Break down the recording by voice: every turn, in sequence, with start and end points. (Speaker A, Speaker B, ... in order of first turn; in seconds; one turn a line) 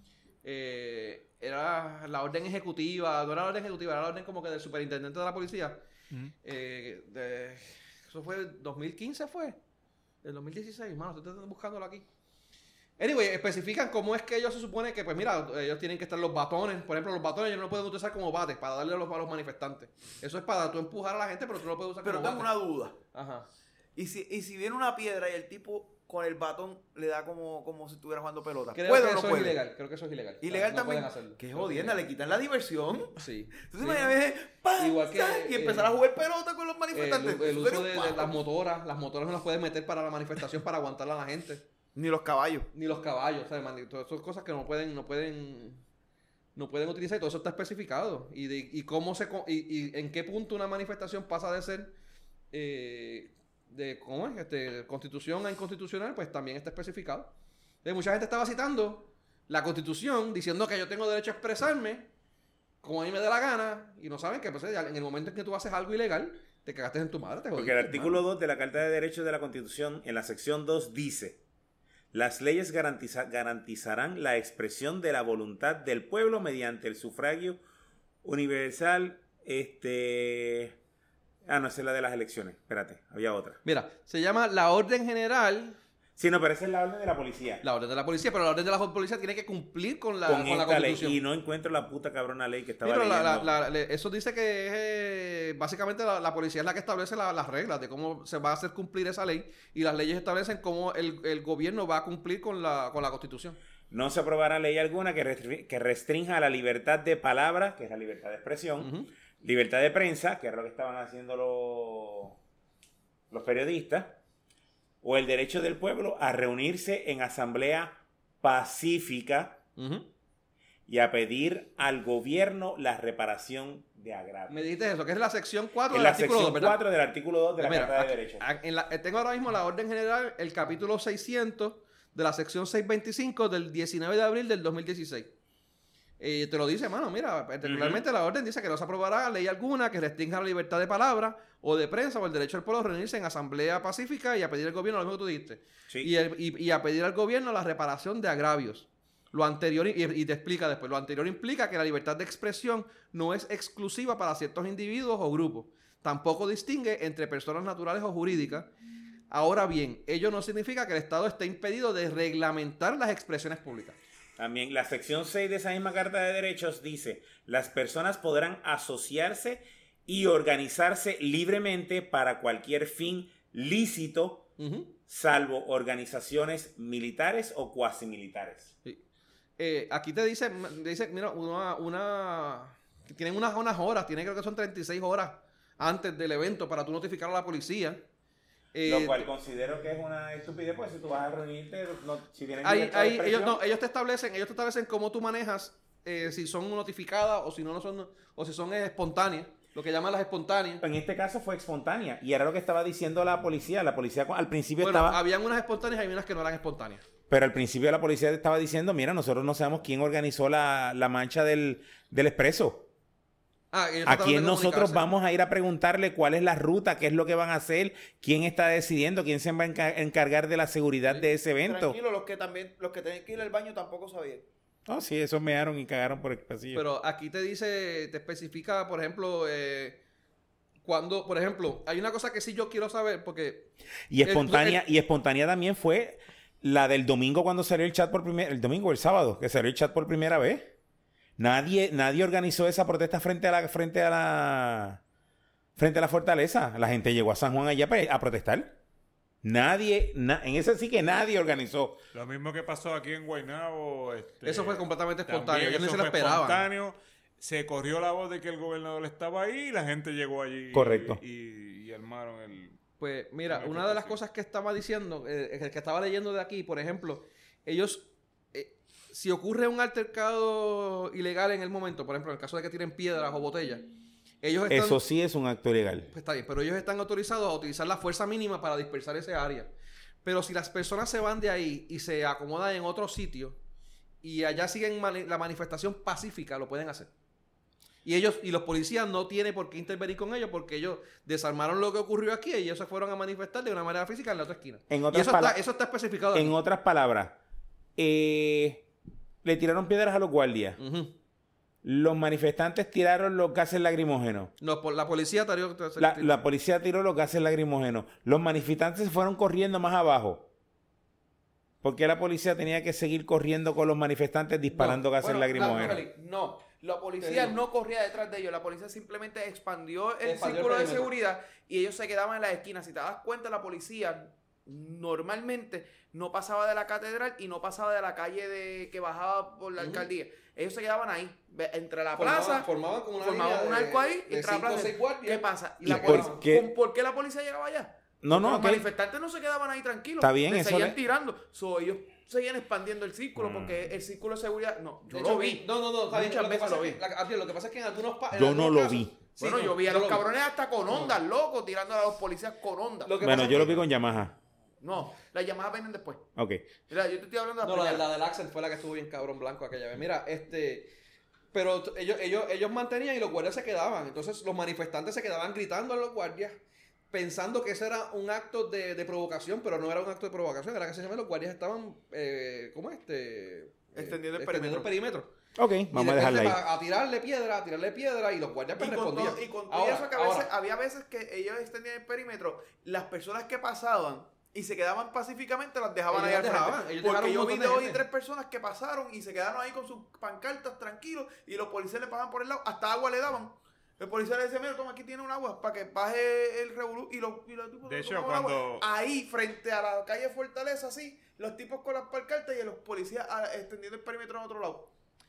Speaker A: 0.4-5.8
Speaker A: 6.4-9.6
Speaker A: 10.2-12.1
Speaker A: 13.0-22.6
Speaker B: 22.0-23.0
Speaker A: 23.1-23.5
Speaker B: 24.0-29.6
Speaker A: 28.7-32.0
Speaker B: 30.4-38.4
Speaker A: 33.2-34.2
Speaker A: 34.8-36.0
Speaker A: 36.9-41.6
Speaker B: 42.0-42.7
Speaker A: 42.7-45.8
Speaker A: 46.6-51.9
Speaker A: 52.5-57.3
Speaker A: 57.8-62.1
Speaker A: 62.8-68.2
Speaker C: 67.6-71.4
Speaker C: 72.1-77.6
Speaker C: 78.2-80.8
Speaker C: 81.5-83.6
Speaker A: 83.6-85.8
Speaker C: 86.2-87.6
Speaker A: 87.6-91.2
Speaker C: 90.3-93.5
Speaker A: 92.8-103.6
Speaker C: 103.9-112.4
Speaker A: 108.8-109.1
Speaker C: 113.3-114.2
Speaker C: 115.0-119.6
Speaker A: 119.8-120.1
Speaker C: 120.9-124.6
Speaker A: 124.5-126.8
Speaker C: 125.9-128.4
Speaker A: 127.6-135.3
Speaker A: 136.2-158.7
Speaker A: 159.3-164.0
Speaker C: 164.4-174.5
Speaker A: 174.6-174.9
Speaker C: 175.1-178.7
Speaker A: 179.6-188.0
Speaker A: 188.7-189.3
Speaker C: 188.8-193.6
Speaker A: 192.6-200.8
Speaker C: 200.8-205.2
Speaker A: 204.8-207.0
Speaker C: 207.3-212.9
Speaker A: 213.7-215.1
Speaker C: 214.1-222.0
Speaker B: 221.6-224.5
Speaker C: 224.9-226.9
Speaker A: 226.7-230.0
Speaker A: 230.8-233.7
Speaker C: 234.1-240.7
Speaker A: 234.2-234.8
Speaker C: 241.4-245.0
Speaker C: 245.8-248.8
Speaker C: 249.4-252.0
Speaker D: 252.1-262.8
Speaker A: 254.4-256.7
Speaker C: 260.7-261.2
Speaker A: 263.0-273.9
Speaker D: 263.5-264.2
Speaker A: 274.4-275.0
Speaker C: 274.7-276.1
Speaker A: 276.1-279.7
Speaker A: 280.2-283.6
Speaker A: 284.2-287.1
Speaker A: 288.0-296.6
Speaker C: 294.9-295.6
Speaker C: 296.3-297.4
Speaker C: 298.0-298.9
Speaker C: 299.4-300.8
Speaker A: 300.8-301.2
Speaker C: 301.8-304.5
Speaker A: 304.6-306.4
Speaker C: 306.0-310.5
Speaker C: 311.8-316.0
Speaker A: 314.7-316.1
Speaker B: 315.2-347.0
Speaker A: 317.2-317.6
Speaker A: 320.2-321.1
Speaker A: 329.8-330.1
Speaker A: 332.2-336.4
Speaker C: 335.8-336.7
Speaker C: 338.2-338.9
Speaker C: 340.2-341.0
Speaker D: 343.4-343.8
Speaker A: 345.1-350.3
Speaker C: 348.3-349.2
Speaker B: 349.4-353.8
Speaker A: 350.9-351.2
Speaker A: 353.1-353.9
Speaker C: 353.2-354.4
Speaker B: 354.8-356.3
Speaker C: 356.4-356.7
Speaker B: 356.9-358.1
Speaker A: 357.6-360.9
Speaker A: 361.5-366.6
Speaker A: 367.1-375.3
Speaker B: 373.9-374.9
Speaker C: 375.6-376.6
Speaker A: 375.9-380.5
Speaker B: 378.8-404.9
Speaker A: 386.1-388.0
Speaker D: 397.9-398.9